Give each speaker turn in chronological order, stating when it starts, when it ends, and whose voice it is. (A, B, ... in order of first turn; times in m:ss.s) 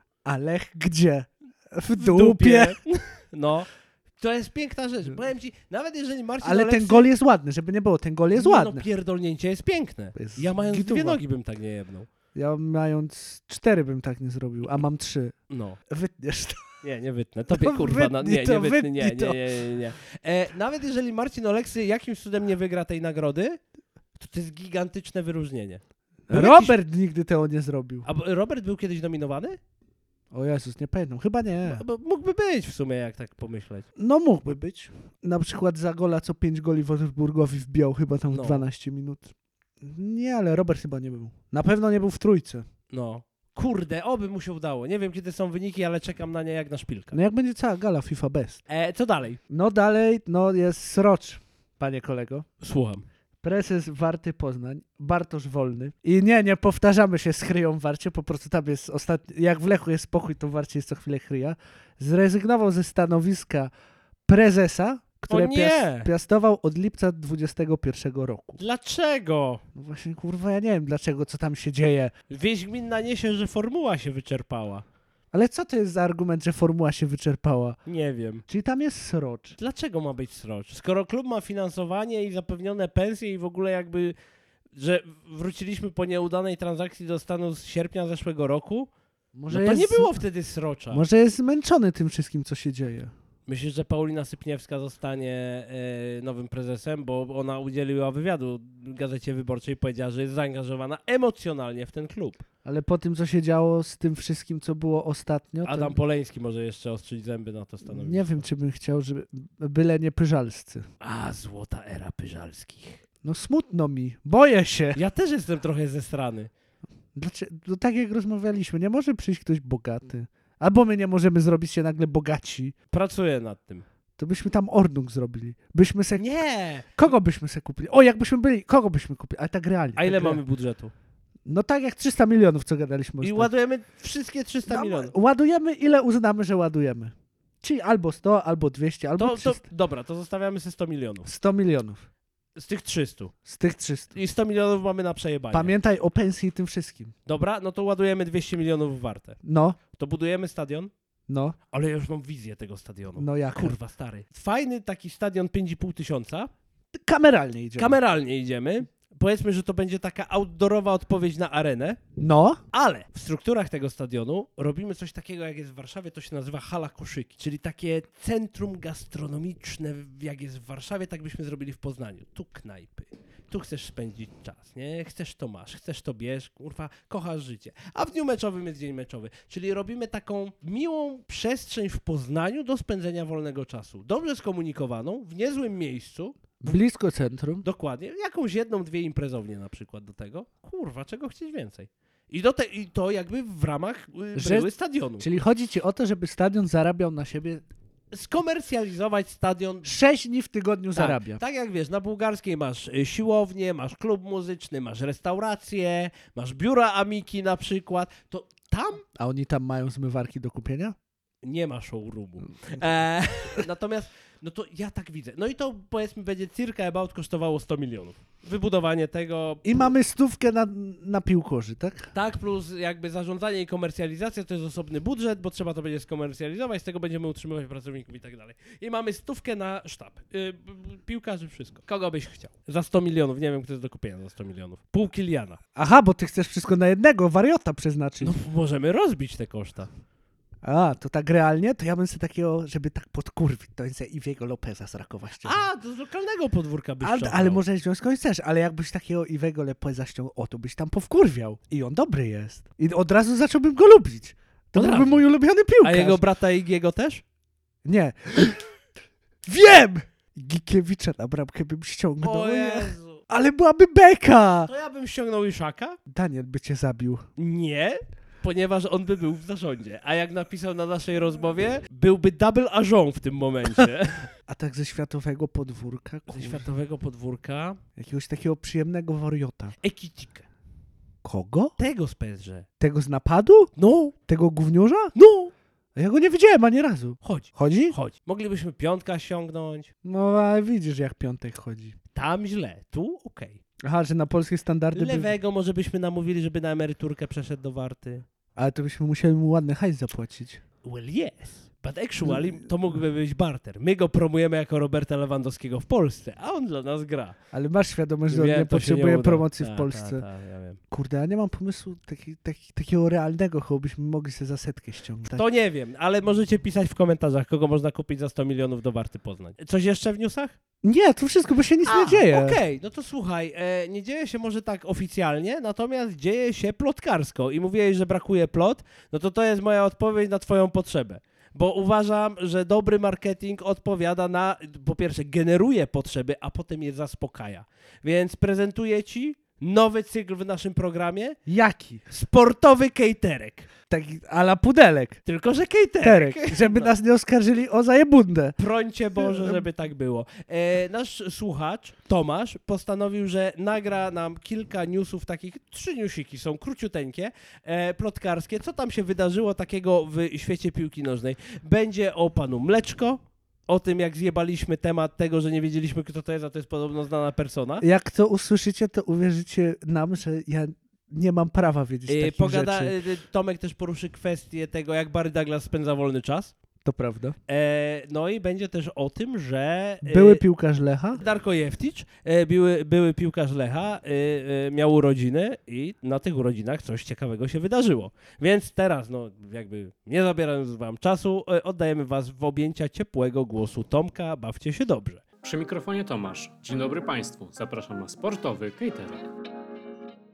0:00.2-0:02.8 A
0:02.0-0:07.1 B
0:06.4-0:08.9 A
0:08.4-0:12.1 B
0:10.2-0:11.2 A
0:12.4-0:15.4 A
0:15.5-0:15.8 B
0:15.9-0:16.7 A
0:16.8-0:23.6 B
0:17.5-0:19.6 A
0:24.2-0:26.8 B
0:26.3-0:28.1 A
0:28.0-0:29.6 B
0:30.3-0:31.8 A
0:31.6-0:33.9 B
0:34.0-0:42.7 A
0:38.3-0:38.7 B
0:42.9-0:47.2 B
0:47.1-0:48.6 A
0:48.7-0:49.4 B
0:49.5-0:52.5 A
0:52.6-0:53.0 B
0:53.4-1:03.7 A
1:04.3-1:08.6 A
1:05.3-1:06.1 B
1:08.6-1:09.6 B
1:09.7-1:12.1 A
1:12.3-1:14.8 B
1:15.3-1:17.8 A
1:17.9-1:18.4 B
1:18.5-1:19.6 A
1:19.6-1:24.2 B
1:24.8-1:28.9 B
1:29.4-1:30.2 A
1:29.5-1:31.0 B
1:30.9-1:33.1 A
1:33.5-1:42.4 B
1:42.6-1:46.0 A
1:45.6-1:48.4 B
1:47.9-1:50.8 A
1:51.0-1:53.0 B
1:53.2-1:55.0 A
1:55.0-1:56.5 B
1:57.2-2:02.8 A
2:02.9-2:03.8 B
2:04.2-2:06.3 A
2:06.2-2:07.0 B
2:07.0-2:10.4 A
2:10.0-2:10.9 B
2:11.4-2:13.5 A
2:13.2-2:15.1 B
2:14.7-2:19.6 A
2:19.2-2:21.3 B
2:21.2-2:22.1 A
2:22.6-2:23.3 B
2:23.5-2:24.2 A
2:24.1-2:25.7 B
2:25.5-2:27.1 A
2:27.3-2:29.4 B
2:29.4-2:29.8 A
2:29.9-2:30.9 B
2:31.3-2:31.6 A
2:31.7-2:36.5 B
2:33.2-2:33.8 A
2:37.0-2:38.0 A
2:37.8-2:42.0 B
2:42.2-2:42.6 A
2:42.7-3:06.5 B
3:06.6-3:07.6 A
3:07.6-3:15.3 B
3:14.4-3:17.6 A
3:18.1-3:19.9 B
3:19.8-3:21.4 A
3:21.0-3:29.0 B
3:29.2-3:31.0 A
3:31.4-3:39.9 B
3:39.6-3:42.1 A
3:42.1-3:55.6 B
3:55.8-3:58.4 A
3:58.2-3:59.9 B
4:00.6-4:05.6 A
4:05.4-4:07.6 B
4:07.0-4:16.2 A
4:14.8-4:15.2 B
4:15.8-4:17.2 B
4:17.8-4:18.6 A
4:19.4-4:24.7 A
4:22.2-4:23.2 B
4:24.7-4:26.0 B
4:26.1-4:27.3 A
4:27.4-4:34.3 B
4:34.5-4:36.7 A
4:36.3-4:37.8 B
4:38.0-4:39.8 A
4:39.8-4:40.5 B
4:41.2-4:41.8 A
4:41.8-4:42.7 B
4:42.8-4:43.7 A
4:43.8-4:44.2 B
4:44.3-4:45.1 A
4:45.2-4:45.5 B
4:46.0-4:48.0 A
4:47.2-4:49.9 B
4:50.0-4:52.0 A
4:52.2-4:53.6 B
4:53.8-4:55.3 A
4:54.9-4:58.3 B
4:58.6-5:00.6 A
5:00.8-5:07.4 B
5:02.2-5:02.7 A
5:07.5-5:10.2 A
5:08.3-5:10.8 B
5:10.9-5:15.4 A
5:15.3-5:20.6 B
5:20.8-5:22.6 A
5:21.8-5:41.4 B
5:41.5-5:42.0 A
5:42.1-5:43.7 B
5:43.9-5:45.2 A
5:45.2-5:46.9 B
5:46.0-5:48.6 A
5:48.6-6:07.8 B
5:49.2-5:49.6 A
6:07.8-6:13.0 A
6:12.1-6:16.5 B
6:16.8-6:17.4 A
6:17.5-6:20.4 B
6:20.0-6:21.2 A
6:21.1-6:35.2 B
6:35.4-6:39.3 C